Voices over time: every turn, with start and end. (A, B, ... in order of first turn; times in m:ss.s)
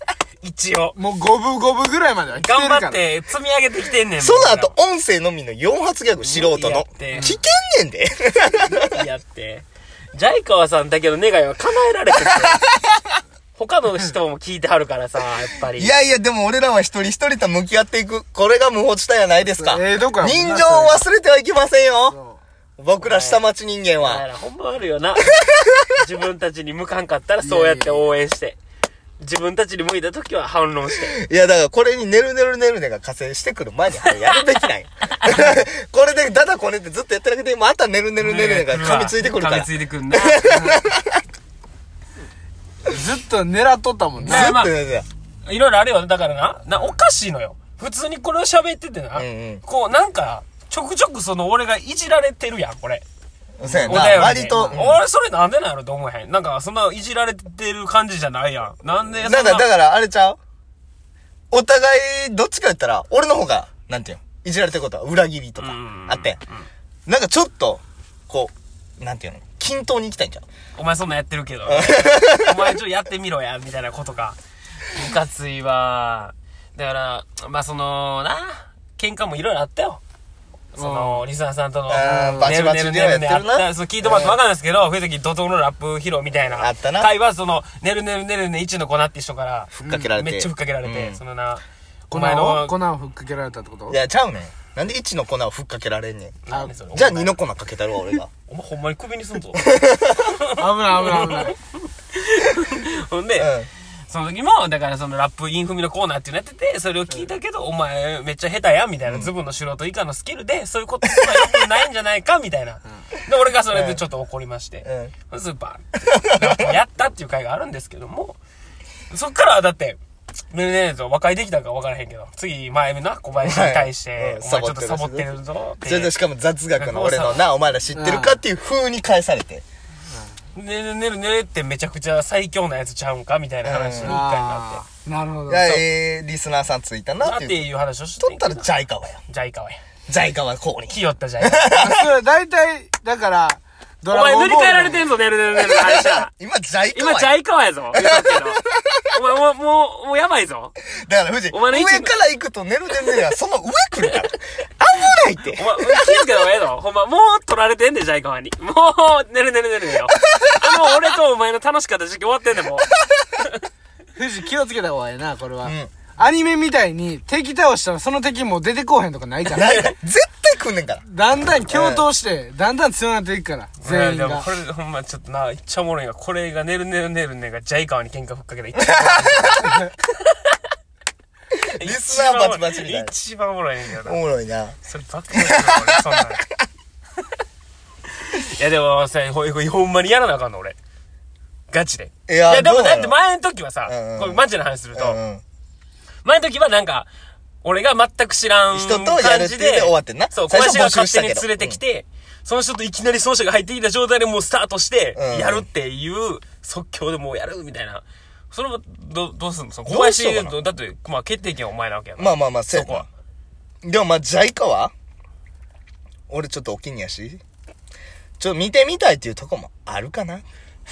0:00.4-0:01.0 A
0:01.0-0:03.0 B
0:02.4-0:04.8 A
0:04.2-0:08.9 C
0:06.2-0:07.4 A
0:07.1-0:07.4 B
0:08.7-0:12.7 A
0:12.1-0:13.0 C
0:13.6-0:15.9 A
0:15.8-0:22.2 C
0:19.4-0:21.0 B
0:22.1-0:22.4 B
0:22.8-0:24.2 C
0:23.0-0:23.4 A
0:24.0-0:25.3 A
0:25.3-0:25.8 C
0:25.9-0:28.6 A
0:27.4-0:28.1 B
0:29.2-0:31.2 A
0:31.0-0:41.2 C
0:34.0-0:34.5 A
0:35.2-0:35.5 A
0:38.2-0:40.8 A
0:42.9-0:44.6 B
0:44.2-0:44.7 A
0:44.3-0:45.1 C
0:45.4-0:53.0 A
0:49.1-0:49.6 C
0:53.6-0:55.0 C
0:53.6-0:54.2 B
0:53.9-0:59.7 A
0:59.2-1:00.4 C
1:01.5-1:06.4 C
1:05.6-1:06.7 A
1:07.1-1:10.4 C
1:10.8-1:20.0 A
1:11.7-1:12.7 C
1:20.7-1:32.7 A
1:20.8-1:21.2 B
1:21.9-1:24.4 C
1:22.0-1:22.5 B
1:26.5-1:27.1 C
1:29.7-1:31.2 C
1:32.1-1:34.0 B
1:33.9-1:38.3 C
1:36.4-1:37.4 A
1:38.5-1:41.6 A
1:39.7-1:40.2 C
1:40.6-1:41.6 B
1:42.1-1:43.5 A
1:43.4-1:43.7 C
1:44.1-1:58.4 A
1:49.0-1:49.3 C
1:53.7-1:54.0 C
1:54.8-1:55.1 C
1:56.1-1:56.8 C
1:59.1-2:00.0 A
2:00.5-2:06.1 A
2:03.4-2:05.3 C
2:05.9-2:09.6 C
2:06.8-2:07.4 A
2:07.9-2:08.4 B
2:10.6-2:14.8 A
2:13.6-2:14.2 C
2:14.0-2:15.7 B
2:15.5-2:17.6 C
2:17.2-2:18.7 A
2:18.2-2:19.2 C
2:19.3-2:19.8 A
2:20.1-2:22.1 C
2:20.9-2:21.8 A
2:21.7-2:25.1 B
2:24.1-2:26.3 A
2:25.6-2:27.4 C
2:26.9-2:30.8 A
2:27.9-2:29.2 C
2:30.9-2:36.5 C
2:31.5-2:32.1 A
2:35.6-2:43.6 A
2:40.3-2:41.0 C
2:44.1-2:49.9 B
2:45.6-2:45.9 C
2:49.5-2:51.0 C
2:51.0-2:54.5 B
2:51.7-2:52.0 C
2:53.8-3:00.6 A
2:58.8-2:59.7 C
3:01.8-3:04.2 A
3:01.8-3:03.1 C
3:04.0-3:04.8 C
3:04.8-3:06.4 A
3:05.3-3:06.4 C
3:08.2-3:10.8 A
3:11.7-3:15.2 A
3:12.3-3:13.2 C
3:13.8-3:14.4 C
3:14.9-3:15.4 C
3:16.2-3:17.1 A
3:17.6-3:33.1 A
3:18.7-3:21.8 C
3:25.2-3:25.7 C
3:29.9-3:30.6 C
3:32.2-3:33.1 C
3:33.8-3:34.9 C
3:36.3-3:37.4 C
3:38.4-3:40.4 C